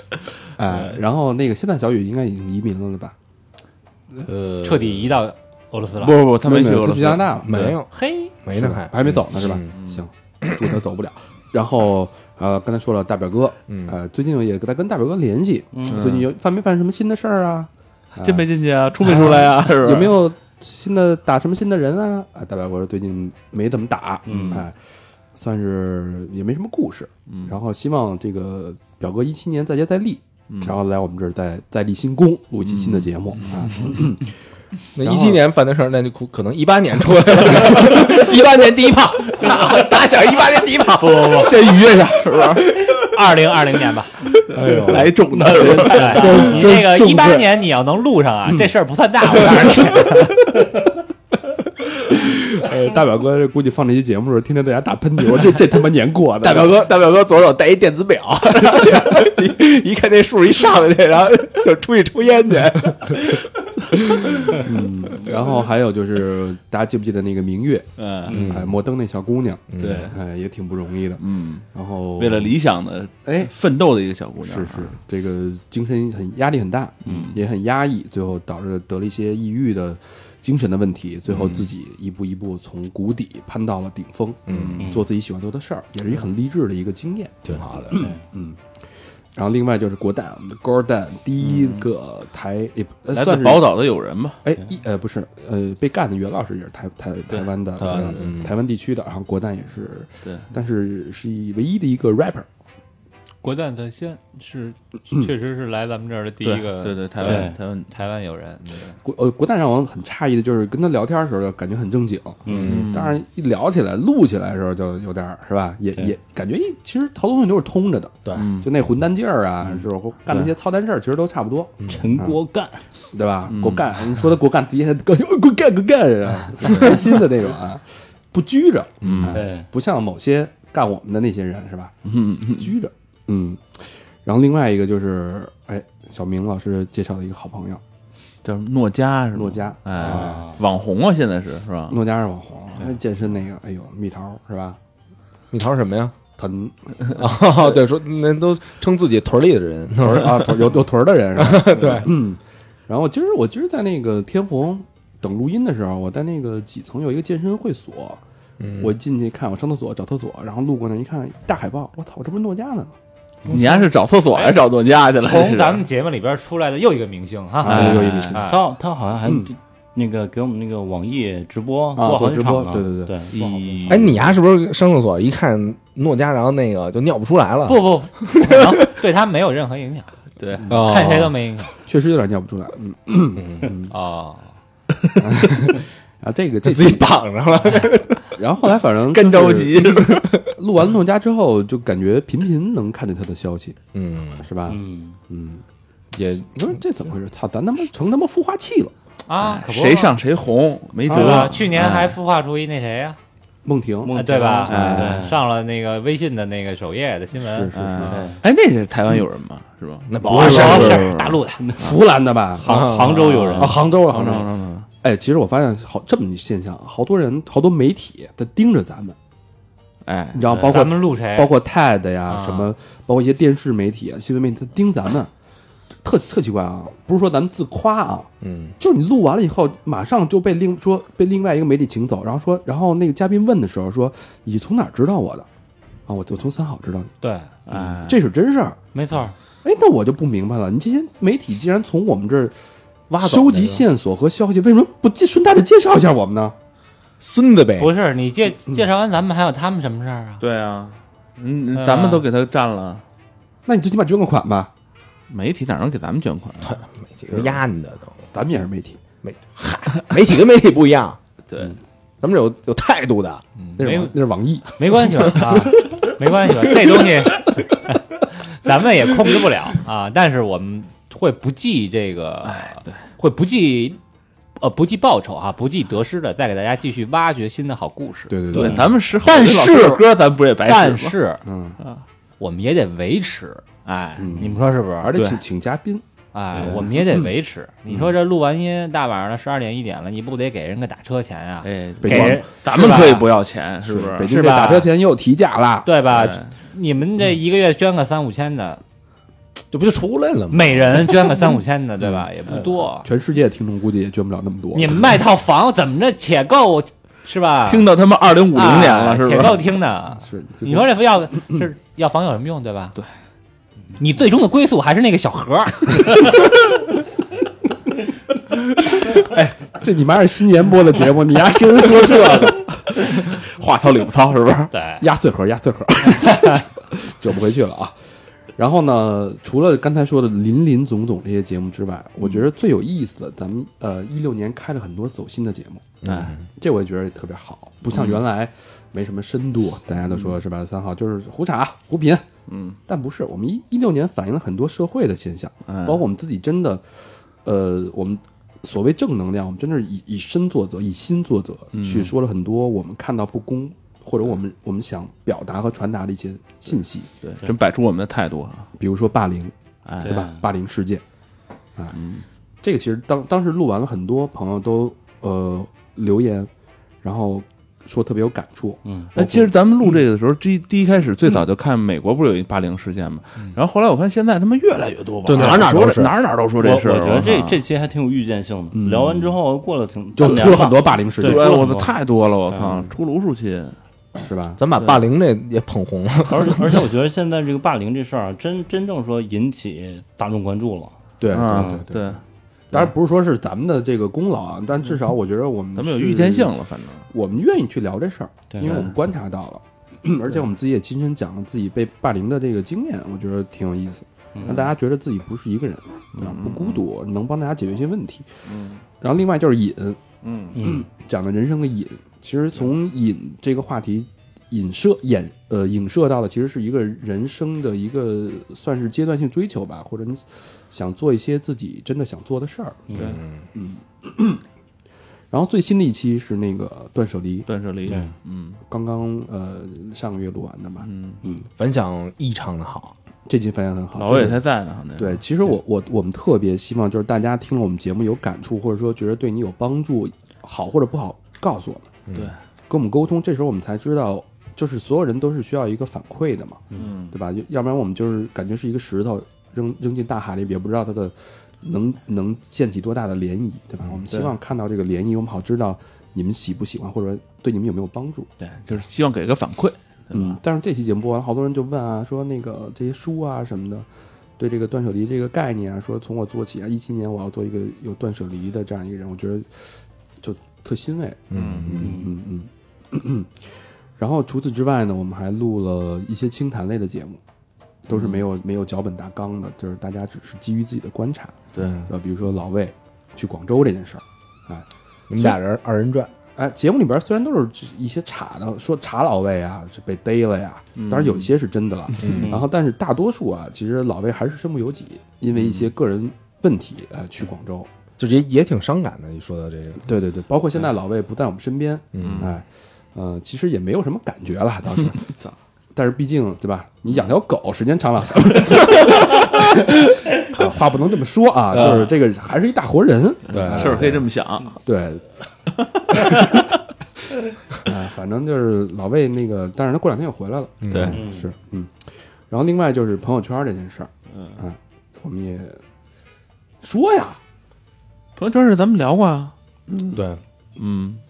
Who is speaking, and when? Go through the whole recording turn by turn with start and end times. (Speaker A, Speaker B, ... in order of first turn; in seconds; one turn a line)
Speaker A: 0.6-3.1
Speaker B: 4.2-5.2
Speaker C: 4.6-6.2
Speaker D: 6.0-7.8
Speaker A: 6.4-7.7
Speaker B: 7.4-9.7
Speaker C: 7.9-8.3
Speaker A: 8.5-18.5
Speaker D: 9.8-10.0
Speaker B: 13.7-14.0
Speaker E: 15.7-16.1
Speaker D: 15.9-16.3
Speaker D: 18.2-20.2
Speaker A: 19.0-24.8
Speaker E: 24.3-24.7
Speaker D: 24.3-24.6
Speaker A: 25.3-34.3
Speaker D: 27.3-27.6
Speaker D: 30.5-30.8
Speaker D: 32.6-33.7
Speaker B: 35.0-41.8
Speaker A: 35.0-35.4
Speaker C: 41.0-41.5
Speaker D: 41.2-42.7
Speaker C: 43.0-44.3
Speaker A: 44.5-45.1
Speaker D: 44.7-46.6
Speaker E: 44.9-46.6
Speaker C: 45.9-50.4
Speaker A: 46.1-47.5
Speaker A: 49.3-50.6
Speaker A: 52.0-56.8
Speaker B: 56.4-64.7
Speaker A: 64.5-71.2
Speaker D: 68.0-68.5
Speaker E: 68.3-68.6
Speaker B: 68.3-68.8
Speaker B: 69.7-70.1
Speaker D: 69.8-70.2
Speaker D: 71.2-75.0
Speaker A: 71.7-72.5
Speaker A: 73.3-73.5
Speaker A: 74.4-88.6
Speaker E: 77.1-77.4
Speaker D: 77.1-77.4
Speaker D: 81.3-81.7
Speaker B: 84.5-84.9
Speaker D: 84.5-84.9
Speaker E: 84.8-85.1
Speaker B: 87.5-88.1
Speaker E: 87.9-88.2
Speaker A: 89.3-93.7
Speaker D: 91.4-91.9
Speaker D: 93.1-94.4
Speaker A: 94.4-102.5
Speaker B: 97.8-98.5
Speaker C: 103.4-109.0
Speaker D: 106.4-107.9
Speaker E: 107.2-107.6
Speaker A: 109.0-122.4
Speaker E: 112.5-112.8
Speaker B: 112.5-112.8
Speaker D: 112.5-113.2
Speaker D: 118.3-118.7
Speaker B: 121.8-122.2
Speaker E: 121.9-122.8
Speaker A: 123.1-131.9
Speaker D: 123.5-123.9
Speaker D: 129.0-129.4
Speaker B: 129.1-129.3
Speaker E: 129.3-129.7
Speaker D: 132.1-132.7
Speaker A: 132.6-137.8
Speaker D: 138.4-142.0
Speaker A: 139.3-140.6
Speaker E: 140.0-140.6
Speaker A: 141.9-144.8
Speaker B: 145.5-146.2
Speaker A: 146.4-146.8
Speaker B: 147.1-150.7
Speaker A: 150.0-158.2
Speaker B: 151.3-152.2
Speaker B: 158.6-158.9
Speaker A: 158.8-162.9
Speaker D: 163.5-165.8
Speaker C: 164.3-164.6
Speaker C: 165.2-168.6
Speaker A: 167.6-168.6
Speaker D: 167.7-168.4
Speaker E: 167.8-174.2
Speaker A: 169.2-169.5
Speaker A: 172.0-173.1
Speaker D: 173.3-174.2
Speaker B: 173.9-178.8
Speaker C: 177.7-180.1
Speaker D: 180.4-180.7
Speaker C: 180.7-181.7
Speaker B: 180.7-181.4
Speaker A: 181.8-183.9
Speaker B: 183.4-183.7
Speaker C: 183.9-184.5
Speaker A: 185.2-187.2
Speaker B: 186.6-188.4
Speaker A: 188.3-193.8
Speaker D: 189.1-190.4
Speaker B: 190.0-190.4
Speaker B: 193.9-194.5
Speaker A: 194.4-195.6
Speaker E: 194.7-195.2
Speaker B: 196.1-196.8
Speaker A: 196.6-198.9
Speaker C: 199.3-200.2
Speaker D: 199.4-202.2
Speaker A: 201.1-201.5
Speaker C: 201.1-203.2
Speaker A: 203.7-205.2
Speaker E: 204.0-205.4
Speaker C: 204.1-207.7
Speaker D: 204.7-205.2
Speaker A: 207.4-208.3
Speaker D: 207.7-211.9
Speaker E: 208.1-208.4
Speaker B: 210.1-211.1
Speaker C: 210.2-211.6
Speaker A: 210.5-210.8
Speaker E: 211.6-211.9
Speaker A: 211.8-212.9
Speaker E: 212.6-213.9
Speaker B: 212.6-213.3
Speaker A: 213.6-214.5
Speaker D: 213.8-214.9
Speaker A: 215.0-219.2
Speaker D: 220.1-220.8
Speaker A: 220.3-225.3
Speaker C: 220.6-221.5
Speaker C: 222.3-222.7
Speaker A: 226.0-235.5
Speaker B: 228.4-228.8
Speaker A: 236.1-237.1
Speaker C: 237.2-237.5
Speaker D: 237.7-238.2
Speaker A: 237.8-238.8
Speaker C: 238.9-239.3
Speaker A: 239.6-242.6
Speaker B: 243.1-243.9
Speaker A: 243.2-246.6
Speaker B: 247.2-247.9
Speaker C: 247.8-250.4
Speaker D: 250.4-253.0
Speaker C: 251.7-252.3
Speaker A: 253.7-254.7
Speaker D: 255.3-256.8
Speaker B: 256.6-258.2
Speaker A: 258.3-259.0
Speaker B: 259.2-261.2
Speaker D: 261.5-261.8
Speaker B: 262.2-263.4
Speaker C: 263.6-264.2
Speaker A: 263.8-265.6
Speaker C: 264.8-268.0
Speaker C: 268.5-274.0
Speaker D: 272.4-273.0
Speaker C: 274.6-278.4
Speaker A: 278.3-278.9
Speaker D: 278.5-281.2
Speaker E: 278.6-278.9
Speaker C: 279.2-280.0
Speaker C: 280.6-281.4
Speaker A: 281.4-281.8
Speaker C: 282.4-283.6
Speaker D: 283.9-284.5
Speaker A: 284.2-286.0
Speaker C: 284.4-285.1
Speaker D: 285.1-285.4
Speaker C: 286.3-293.3
Speaker A: 286.6-287.3
Speaker A: 287.9-288.1
Speaker D: 291.6-294.3
Speaker A: 292.0-292.5
Speaker A: 293.8-295.9
Speaker C: 294.3-294.9
Speaker C: 295.9-298.8
Speaker D: 296.1-296.5
Speaker B: 299.7-301.4
Speaker C: 300.5-303.1
Speaker A: 303.0-305.1
Speaker C: 304.7-307.9
Speaker D: 307.7-309.7
Speaker C: 308.5-312.9
Speaker A: 310.2-310.9
Speaker C: 314.0-316.4
Speaker A: 319.1-322.7
Speaker D: 322.1-324.7
Speaker C: 324.7-325.1
Speaker A: 325.0-327.9
Speaker A: 328.6-335.9
Speaker B: 336.0-336.4
Speaker D: 336.1-336.4
Speaker A: 336.6-342.3
Speaker D: 337.9-338.2
Speaker D: 342.5-342.8
Speaker A: 342.9-346.8
Speaker D: 345.7-346.0
Speaker A: 347.4-357.1
Speaker D: 351.7-352.1
Speaker D: 357.2-358.7
Speaker A: 358.8-361.0
Speaker D: 359.9-360.2
Speaker E: 360.0-360.4
Speaker D: 361.9-362.2
Speaker A: 362.6-366.5
Speaker A: 367.0-369.5
Speaker E: 368.9-369.1
Speaker D: 369.1-377.6
Speaker B: 375.2-376.1
Speaker E: 376.6-382.0
Speaker A: 378.7-379.3
Speaker A: 380.2-381.5
Speaker D: 381.2-383.8
Speaker E: 382.5-382.9
Speaker A: 384.2-384.6
Speaker B: 384.6-386.8
Speaker E: 386.3-391.9
Speaker A: 391.2-392.2
Speaker D: 391.3-392.2
Speaker A: 392.7-396.5
Speaker D: 395.8-397.1
Speaker A: 397.1-408.3
Speaker E: 398.5-398.9
Speaker D: 398.6-398.9
Speaker E: 404.4-404.7
Speaker D: 406.2-406.8
Speaker D: 408.5-408.8
Speaker A: 409.0-410.0
Speaker D: 410.2-410.6
Speaker E: 410.6-410.9
Speaker A: 410.6-422.9
Speaker E: 422.9-423.2
Speaker D: 422.9-423.2
Speaker B: 423.0-423.4
Speaker A: 423.6-424.4
Speaker A: 425.3-427.9
Speaker D: 427.5-428.6
Speaker E: 427.9-428.1
Speaker A: 428.7-431.5
Speaker D: 430.8-431.2
Speaker B: 431.6-432.9
Speaker A: 433.3-434.4
Speaker D: 433.9-435.2
Speaker A: 435.0-441.9
Speaker B: 442.1-442.3
Speaker A: 442.7-458.3
Speaker D: 446.8-447.1
Speaker D: 458.4-460.4
Speaker A: 460.1-463.9
Speaker A: 464.4-469.6
Speaker A: 470.2-473.4
Speaker B: 471.3-472.0
Speaker D: 471.3-471.8
Speaker E: 471.8-472.1
Speaker A: 474.0-477.2
Speaker A: 477.9-484.7
Speaker D: 481.5-481.9
Speaker B: 481.6-481.9
Speaker B: 485.1-486.1
Speaker A: 486.4-497.7
Speaker D: 490.8-491.3
Speaker B: 492.0-492.4
Speaker E: 492.1-492.5
Speaker D: 495.4-495.6
Speaker B: 498.0-499.9
Speaker A: 499.9-505.1
Speaker B: 501.9-502.3
Speaker D: 502.0-502.3
Speaker A: 505.7-514.0
Speaker B: 511.5-511.9
Speaker B: 513.3-514.0
Speaker D: 513.3-514.6
Speaker A: 514.6-515.1
Speaker D: 515.8-516.2
Speaker A: 516.0-516.3
Speaker A: 517.6-521.8
Speaker B: 520.6-521.0
Speaker D: 520.7-521.0
Speaker E: 520.9-521.3
Speaker A: 522.3-525.6
Speaker A: 526.6-527.2
Speaker D: 528.2-529.3
Speaker A: 529.7-530.0
Speaker B: 529.9-530.2
Speaker D: 530.6-531.0